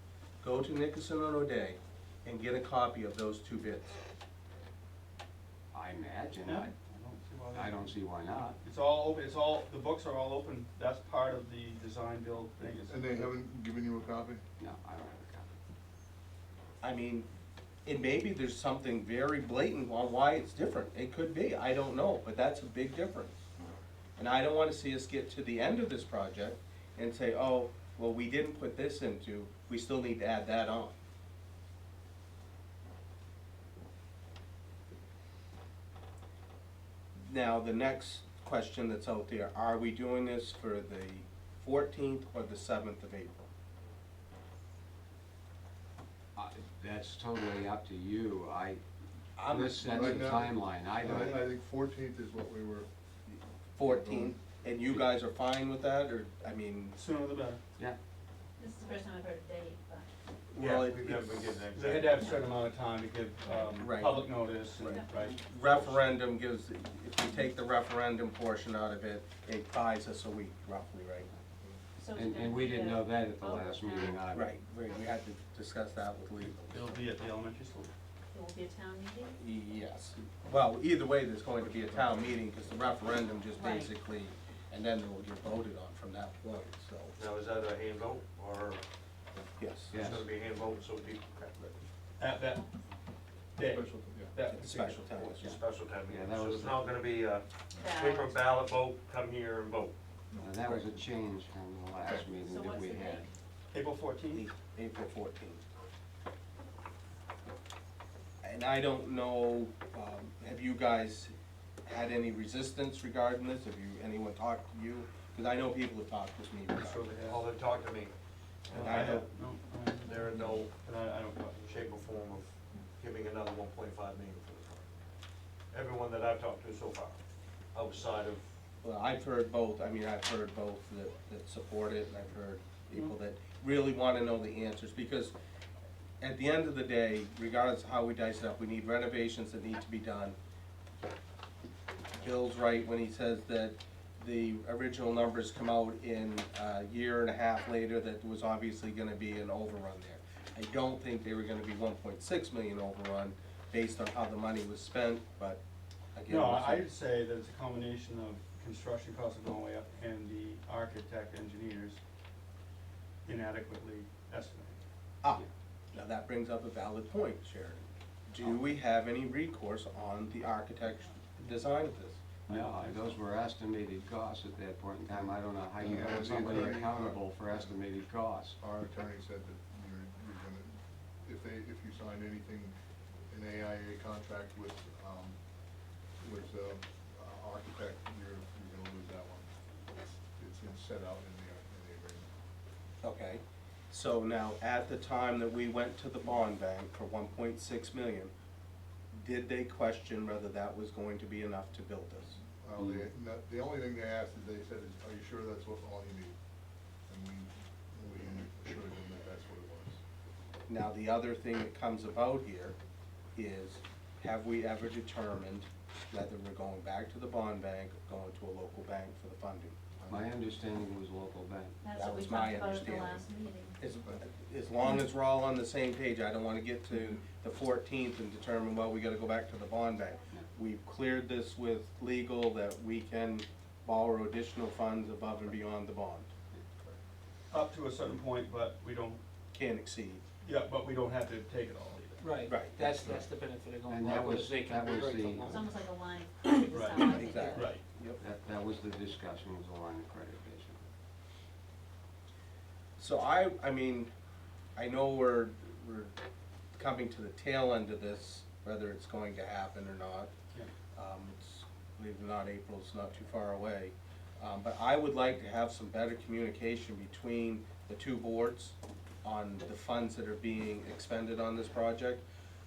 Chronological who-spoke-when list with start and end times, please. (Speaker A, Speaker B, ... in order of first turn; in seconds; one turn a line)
Speaker A: 0.4-4.0
Speaker B: 5.7-6.7
Speaker C: 6.5-7.8
Speaker B: 7.5-8.6
Speaker C: 8.6-13.3
Speaker D: 12.9-14.4
Speaker B: 14.6-15.5
Speaker A: 16.8-17.3
Speaker A: 17.9-23.3
Speaker A: 24.2-31.0
Speaker A: 37.2-43.5
Speaker B: 46.4-48.8
Speaker A: 49.4-50.3
Speaker B: 49.5-51.4
Speaker D: 49.7-52.9
Speaker A: 51.1-51.4
Speaker A: 53.3-57.0
Speaker D: 53.8-54.4
Speaker C: 57.0-57.6
Speaker E: 58.6-60.1
Speaker A: 60.5-61.6
Speaker F: 60.5-62.5
Speaker C: 61.7-66.0
Speaker E: 63.5-63.8
Speaker A: 63.8-71.3
Speaker E: 64.8-65.4
Speaker E: 72.0-74.2
Speaker B: 72.2-74.5
Speaker A: 74.3-77.0
Speaker C: 76.4-77.9
Speaker E: 78.3-79.4
Speaker A: 79.4-87.2
Speaker E: 83.6-83.9
Speaker F: 87.2-88.8
Speaker A: 89.6-89.9
Speaker B: 89.9-90.3
Speaker F: 90.0-91.8
Speaker C: 92.2-92.7
Speaker C: 93.6-95.2
Speaker D: 93.6-94.3
Speaker A: 94.5-95.5
Speaker F: 95.3-99.9
Speaker B: 95.4-96.9
Speaker E: 97.8-98.4
Speaker D: 100.3-100.8
Speaker B: 100.4-103.3
Speaker E: 102.4-103.3
Speaker C: 103.7-104.5
Speaker A: 104.3-105.6
Speaker A: 108.4-111.3
Speaker A: 111.8-117.0
Speaker C: 116.7-117.4
Speaker F: 117.2-118.1
Speaker C: 118.7-122.1
Speaker F: 118.7-119.2
Speaker A: 118.7-119.3
Speaker F: 120.0-120.7
Speaker F: 121.7-124.9
Speaker F: 125.7-127.2
Speaker F: 127.7-128.4
Speaker A: 128.8-135.3
Speaker A: 136.2-140.4
Speaker A: 142.2-155.6
Speaker A: 156.1-156.8
Speaker C: 156.3-162.0
Speaker C: 163.2-164.8
Speaker A: 165.2-172.2
Speaker C: 172.5-173.2
Speaker B: 172.5-178.6
Speaker D: 175.8-177.7
Speaker D: 178.6-182.8
Speaker D: 183.3-185.4
Speaker D: 186.2-189.5
Speaker D: 190.4-192.3
Speaker A: 193.0-198.3
Speaker A: 199.1-202.4
Speaker D: 202.6-206.3
Speaker D: 207.1-210.0
Speaker A: 210.7-212.8
Speaker A: 213.3-219.8
Speaker D: 220.0-220.3
Speaker B: 220.1-221.8
Speaker E: 221.8-223.8
Speaker A: 221.9-223.2
Speaker A: 223.8-236.3
Speaker C: 237.5-239.2
Speaker A: 239.5-240.2
Speaker C: 240.4-242.4
Speaker G: 242.2-245.6
Speaker A: 242.5-243.2
Speaker B: 243.9-245.6
Speaker E: 245.5-247.7
Speaker C: 246.7-247.8
Speaker A: 247.0-248.2
Speaker G: 247.2-247.5
Speaker B: 248.2-250.8
Speaker A: 253.0-254.1
Speaker A: 254.8-256.1
Speaker A: 256.8-260.3
Speaker A: 260.9-272.2